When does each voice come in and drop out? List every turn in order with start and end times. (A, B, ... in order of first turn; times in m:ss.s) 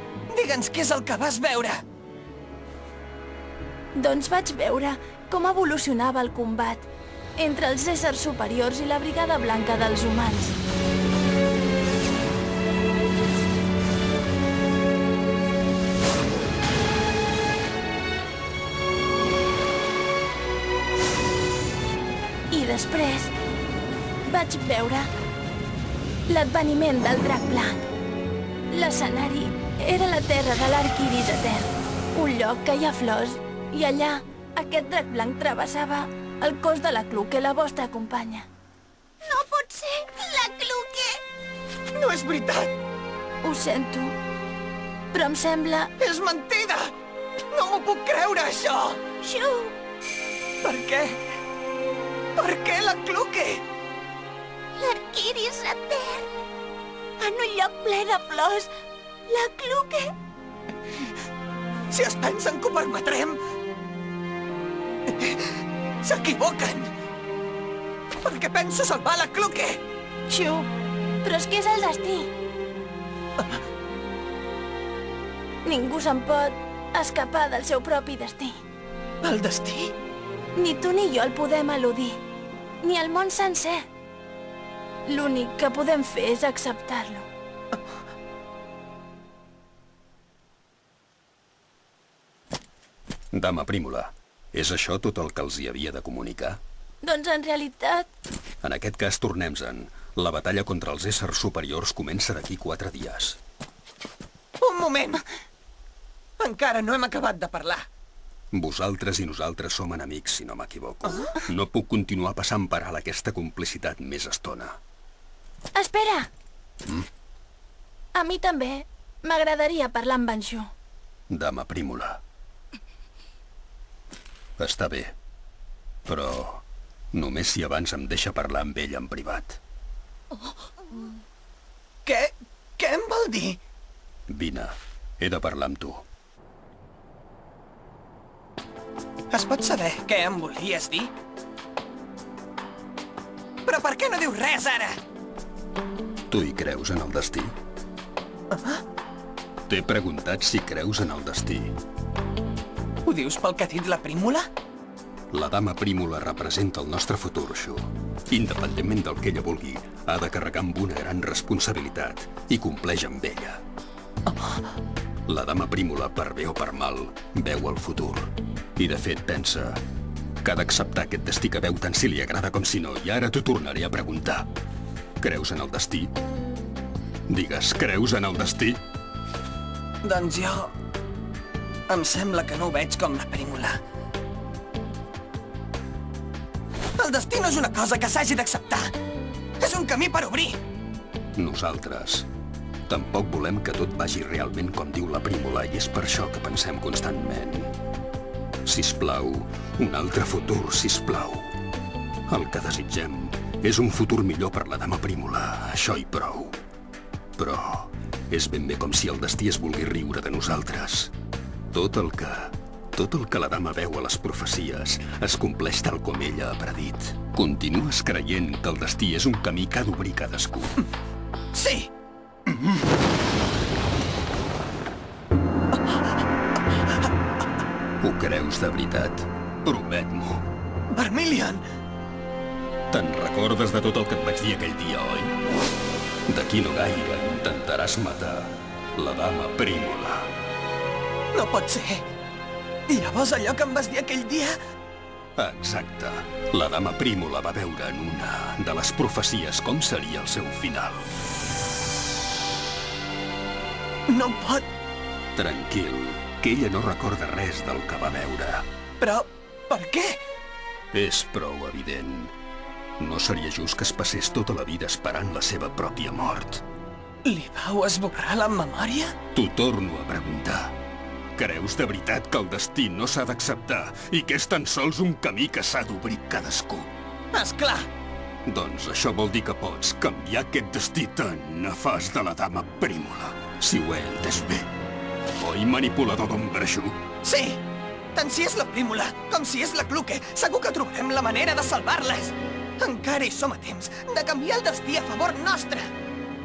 0:00.3-0:01.8 A
0:03.9-0:10.6 B
0:22.5-0:23.3 B
0:24.2-0:25.1 B
0:26.3-0:27.8 B
0:28.7-0:38.5 B
0:39.2-0:41.2 C
0:41.9-0:42.7 A
0:43.4-0:44.2 B
0:45.1-0:45.9 B
0:46.0-0:46.9 A
0:47.5-0:49.0 A
0:49.2-0:49.7 C
0:50.6-0:51.2 A
0:52.4-0:53.6 A
0:54.8-0:56.3 C
0:57.2-0:58.7 C
0:59.3-1:00.1 C
1:01.9-1:03.4 A
1:05.1-1:06.9 A
1:08.2-1:09.8 A
1:10.3-1:10.7 B
1:11.2-1:12.3 B
1:15.6-1:18.5 B
1:19.2-1:19.9 A
1:20.5-1:22.2 B
1:22.8-1:23.8 B
1:25.0-1:27.2 B
1:33.3-1:36.6 D
1:37.0-1:38.1 B
1:38.6-1:43.4 D
1:44.6-1:45.2 A
1:46.4-1:47.9 A
1:48.5-1:54.8 D
1:55.7-1:56.3 B
1:58.1-2:00.7 B
2:01.3-2:02.2 D
2:04.6-2:05.2 D
2:06.0-2:09.6 D
2:12.0-2:13.6 A
2:14.3-2:16.1 D
2:19.3-2:21.1 A
2:23.6-2:25.0 A
2:26.3-2:27.5 D
2:28.5-2:28.8 A
2:29.7-2:31.8 D
2:33.0-2:34.5 A
2:35.3-2:43.6 D
2:44.3-2:44.6 A
2:45.3-2:49.8 D
2:50.4-2:54.5 D
2:55.2-2:56.1 D
2:57.3-2:58.8 D
3:00.0-3:00.7 A
3:01.9-3:03.8 A
3:07.0-3:08.9 A
3:09.6-3:10.6 A
3:11.4-3:12.3 D
3:12.9-3:17.7 D
3:18.6-3:21.5 D
3:22.3-3:26.6 D
3:27.4-3:31.1 D
3:31.7-3:40.8 D
3:41.5-3:41.9 A
3:48.0-3:50.4 D
3:50.9-3:51.6 A
3:52.9-3:55.3 D
3:56.3-4:00.3 D
4:01.3-4:02.0 A
4:02.9-4:04.6 A
4:05.4-4:11.1 D
4:14.1-4:14.7 A
4:15.4-4:18.6 D
4:19.0-4:20.2 A
4:20.9-4:22.3 D
4:23.0-4:26.6 D
4:27.2-4:29.1 A
4:29.3-4:30.8 D
4:31.4-4:36.9 D
4:37.3-4:37.9 A
4:38.5-4:44.7 D
4:45.4-4:47.0 D
4:47.2-4:47.6 A
4:48.1-4:55.9 A